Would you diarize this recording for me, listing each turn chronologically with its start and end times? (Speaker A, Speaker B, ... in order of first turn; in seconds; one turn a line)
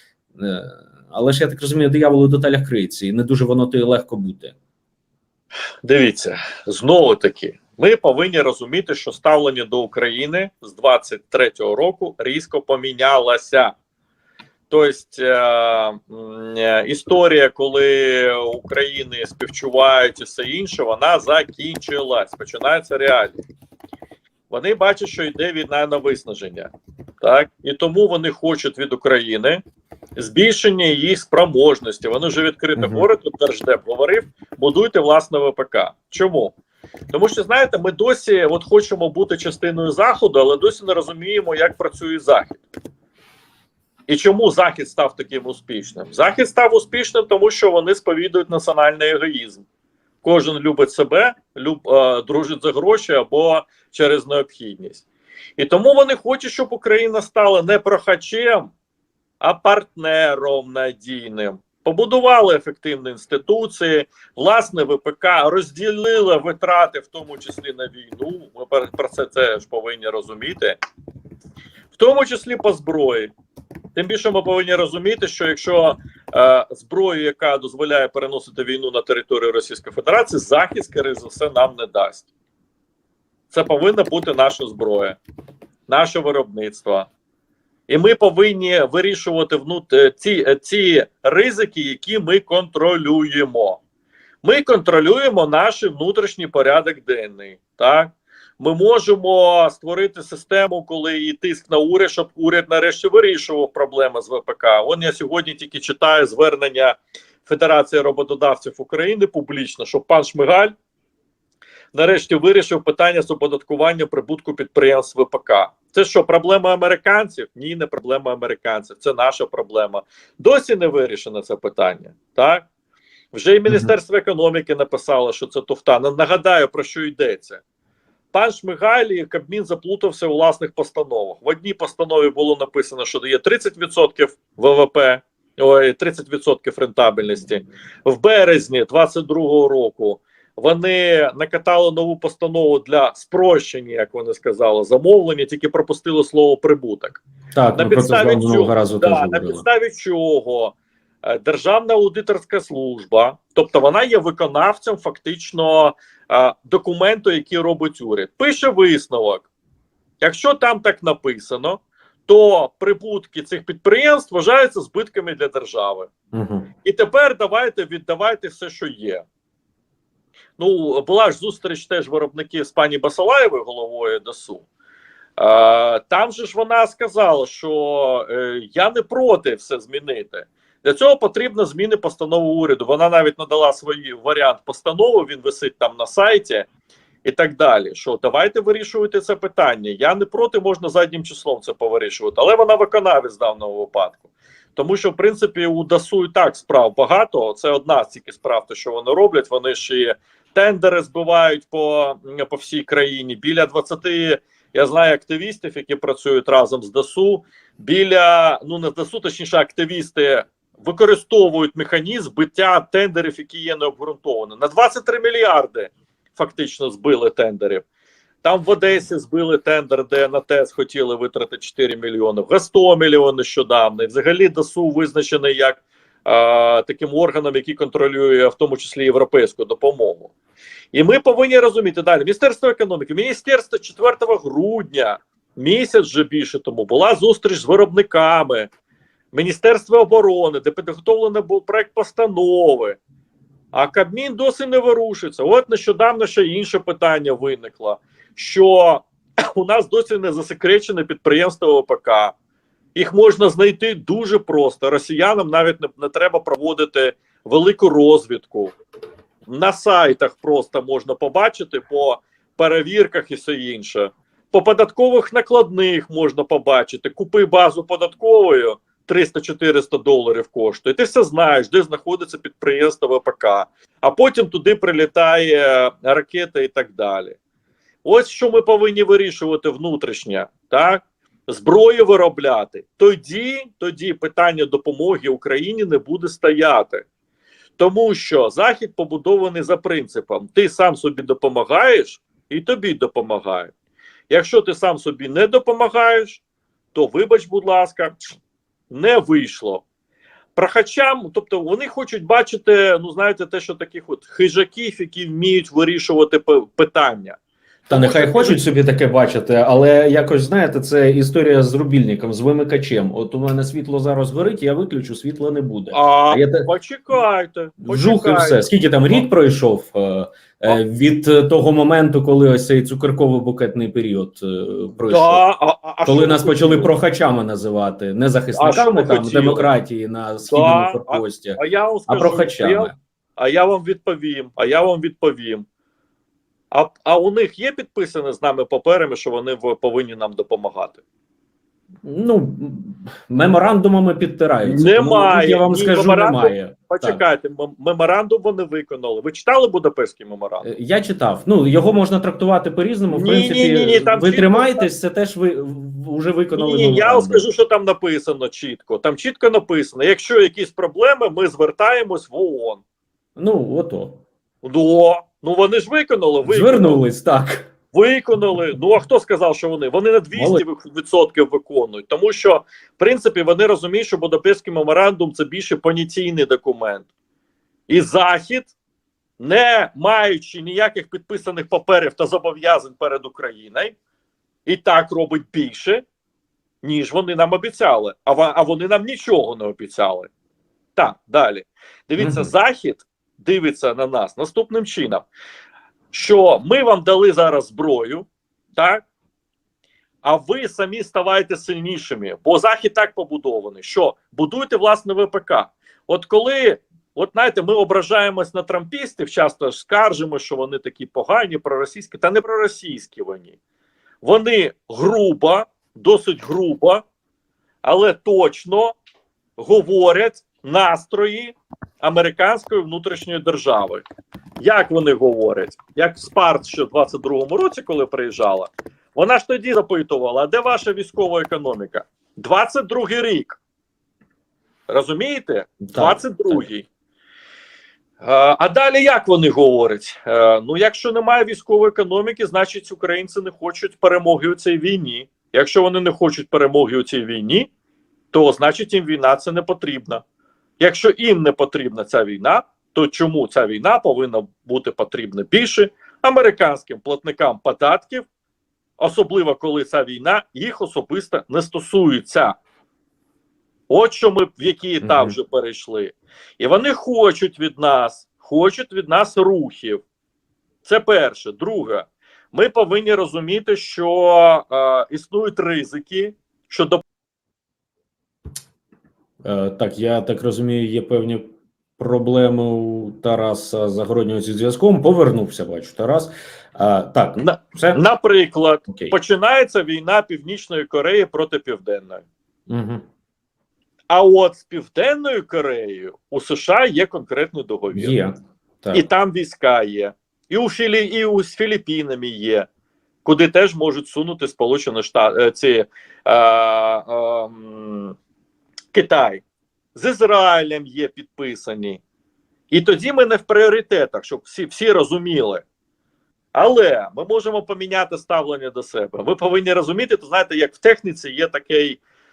Speaker A: 0.4-4.5
Speaker B: 5.8-13.8
Speaker B: 14.7-23.4
Speaker B: 24.5-29.6
Speaker B: 30.2-36.5
Speaker A: 32.8-33.1
Speaker B: 37.1-42.6
Speaker B: 44.1-49.6
Speaker B: 50.2-55.0
Speaker B: 55.6-58.7
Speaker B: 59.4-70.8
Speaker B: 71.9-73.3
Speaker B: 74.0-82.3
Speaker B: 83.5-85.2
Speaker B: 85.9-87.1
Speaker B: 87.9-93.8
Speaker B: 94.4-110.7
Speaker B: 111.9-122.7
Speaker B: 123.3-127.6
Speaker A: 123.7-124.0
Speaker B: 128.3-147.2
Speaker A: 147.6-149.7
Speaker B: 147.8-159.5
Speaker B: 160.2-166.1
Speaker A: 166.3-166.7
Speaker B: 166.8-169.2
Speaker B: 170.6-174.7
Speaker B: 175.4-186.7
Speaker B: 187.2-194.2
Speaker B: 194.8-217.8
Speaker B: 218.4-230.3
Speaker B: 230.9-238.7
Speaker B: 239.3-243.0
Speaker B: 243.7-252.3
Speaker B: 252.9-258.8
Speaker B: 259.5-277.4
Speaker B: 278.0-287.1
Speaker B: 287.8-293.7
Speaker B: 294.3-296.4
Speaker B: 296.9-298.1
Speaker B: 298.9-299.8
Speaker B: 300.6-307.4
Speaker B: 307.9-308.6
Speaker A: 307.9-316.7
Speaker B: 315.9-319.3
Speaker A: 317.8-325.4
Speaker B: 325.1-326.9
Speaker A: 326.1-332.9
Speaker B: 328.6-329.7
Speaker B: 330.4-335.6
Speaker B: 336.7-341.0
Speaker A: 342.0-347.2
Speaker B: 344.6-350.6
Speaker A: 350.6-357.4
Speaker B: 353.1-354.9
Speaker B: 356.6-362.8
Speaker A: 363.4-364.2
Speaker B: 364.6-367.0
Speaker A: 366.4-367.7
Speaker B: 367.9-377.1
Speaker A: 370.4-370.6
Speaker B: 377.9-378.7
Speaker B: 379.4-383.9
Speaker B: 384.7-386.1
Speaker B: 386.8-390.3
Speaker B: 391.0-395.3
Speaker A: 392.2-392.5
Speaker B: 396.1-399.0
Speaker B: 400.2-413.6
Speaker B: 414.2-417.0
Speaker B: 417.8-419.0
Speaker B: 419.6-424.1
Speaker B: 424.6-433.6
Speaker B: 434.9-436.9
Speaker A: 435.8-436.7
Speaker B: 438.2-447.7
Speaker B: 448.3-450.2
Speaker B: 450.8-458.2
Speaker B: 459.0-462.6
Speaker B: 463.9-470.0
Speaker A: 465.0-465.4
Speaker B: 470.9-477.0
Speaker A: 479.4-481.5
Speaker A: 482.0-488.0
Speaker B: 487.4-492.2
Speaker A: 488.9-489.1
Speaker A: 492.7-493.0
Speaker B: 494.1-498.2
Speaker A: 497.9-499.1
Speaker B: 498.9-502.7
Speaker B: 503.2-508.2
Speaker B: 508.9-509.4
Speaker B: 509.9-512.0
Speaker B: 512.7-515.6
Speaker B: 516.5-522.0